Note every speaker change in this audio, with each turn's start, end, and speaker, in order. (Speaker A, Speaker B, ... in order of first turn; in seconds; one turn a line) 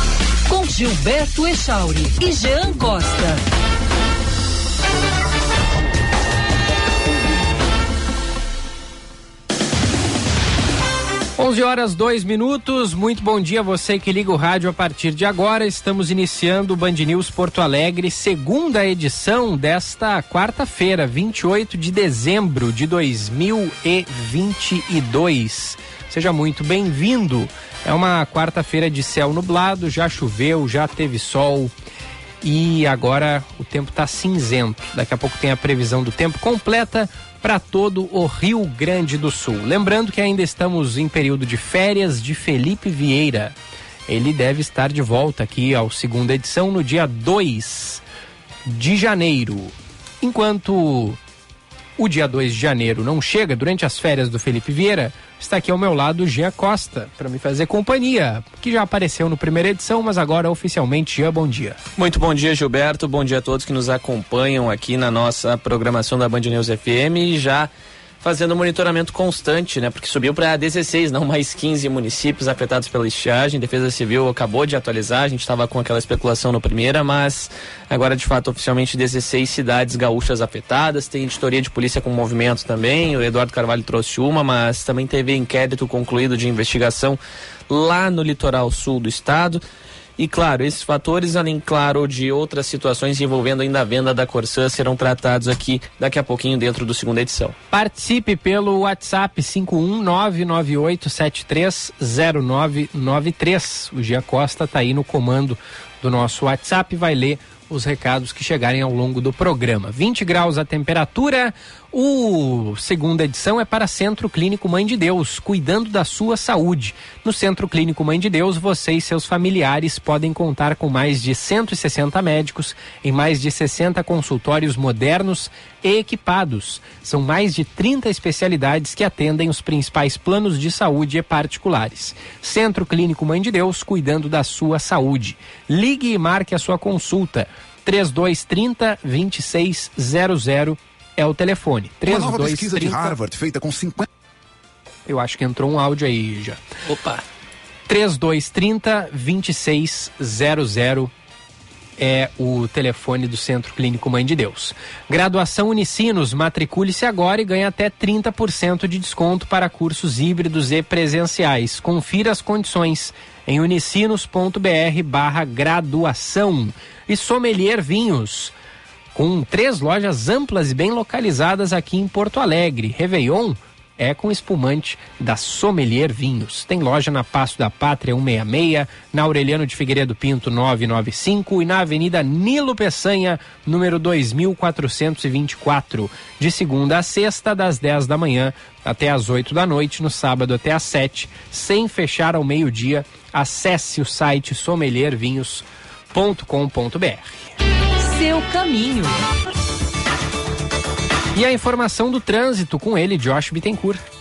Speaker A: 0.5-3.4
Speaker B: 11.4-31.7
Speaker B: 32.4-43.5
Speaker B: 44.1-48.0
Speaker B: 48.7-51.2
Speaker B: 52.0-61.8
Speaker C: 62.0-89.6
Speaker C: 90.2-97.5
Speaker B: 97.7-143.2
Speaker D: 142.1-144.1
Speaker B: 145.1-146.6
Speaker C: 146.9-147.2
Speaker B: 147.9-151.1
Speaker B: 152.0-168.5
Speaker B: 169.1-197.6
Speaker A: 198.0-199.3
Speaker B: 201.3-204.0